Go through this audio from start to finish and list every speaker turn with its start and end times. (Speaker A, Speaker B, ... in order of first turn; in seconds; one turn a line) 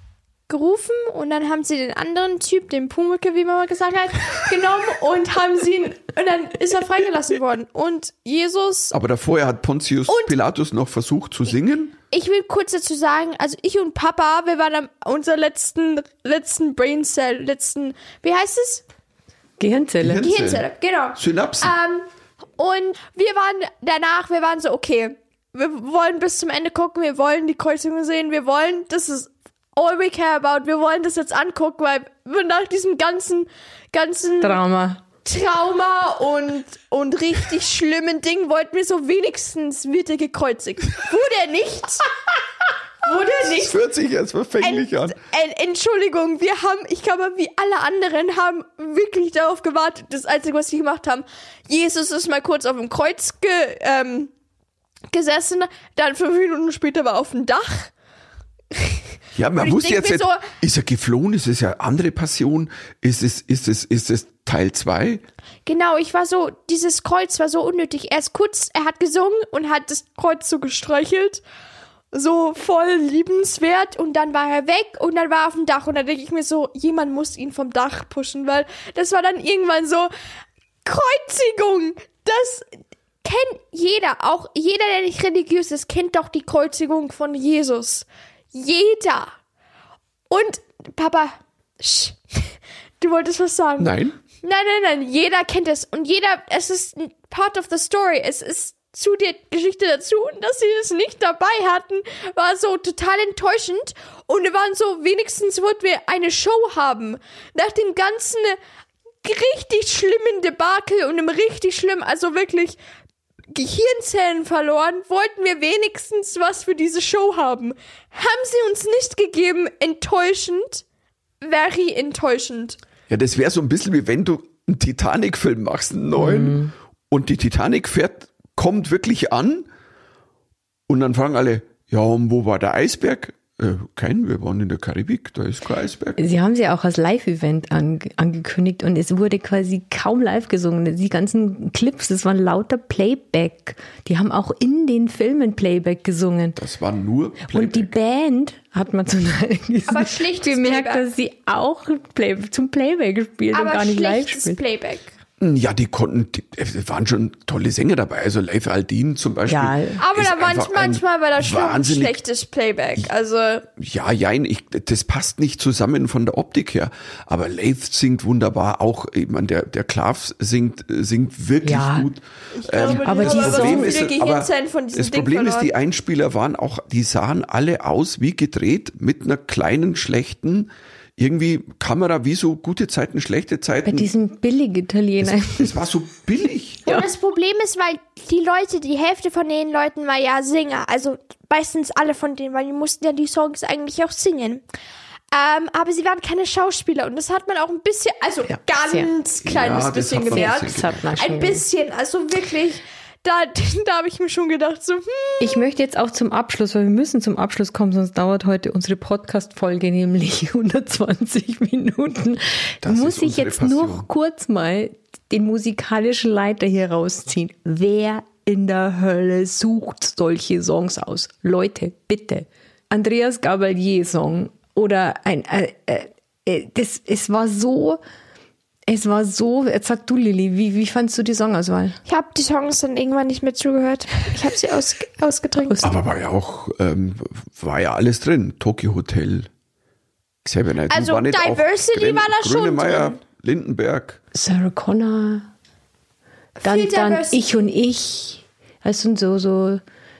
Speaker A: 0.5-8.9
Speaker B: 8.9-11.9
Speaker A: 10.1-10.4
Speaker A: 12.1-18.8
Speaker C: 19.6-20.2
Speaker B: 20.0-21.7
Speaker A: 20.2-22.1
Speaker A: 22.6-34.6
Speaker C: 34.4-35.0
Speaker A: 35.2-42.1
Speaker A: 43.0-43.8
Speaker B: 43.5-45.2
Speaker A: 44.6-54.3
Speaker A: 55.1-57.9
Speaker A: 58.7-59.0
Speaker B: 59.4-65.2
Speaker A: 59.6-60.4
Speaker A: 65.7-71.4
Speaker A: 72.1-80.1
Speaker A: 80.8-82.6
Speaker A: 83.2-89.3
Speaker A: 90.3-108.6
Speaker B: 93.8-94.1
Speaker A: 109.2-112.8
Speaker A: 113.5-120.8
Speaker A: 121.4-122.8
Speaker B: 123.1-129.7
Speaker C: 126.2-126.7
Speaker B: 130.9-136.2
Speaker C: 136.2-146.6
Speaker B: 146.6-147.9
Speaker C: 147.4-154.6
Speaker A: 149.9-151.0
Speaker A: 153.5-155.1
Speaker B: 155.4-162.2
Speaker C: 159.5-160.0
Speaker A: 160.0-163.7
Speaker B: 163.8-184.1
Speaker C: 171.6-172.1
Speaker A: 172.5-175.7
Speaker C: 172.9-174.1
Speaker C: 183.9-185.8
Speaker B: 185.2-186.8
Speaker A: 186.9-194.6
Speaker A: 195.3-205.7
Speaker C: 198.5-199.1
Speaker B: 199.4-201.0
Speaker C: 199.8-201.6
Speaker C: 205.4-228.0
Speaker B: 212.8-214.1
Speaker C: 228.9-232.0
Speaker A: 232.1-235.8
Speaker C: 235.7-235.9
Speaker B: 235.8-239.5
Speaker B: 240.4-244.2
Speaker A: 240.9-243.2
Speaker C: 244.3-245.5
Speaker A: 246.6-247.4
Speaker C: 246.6-249.8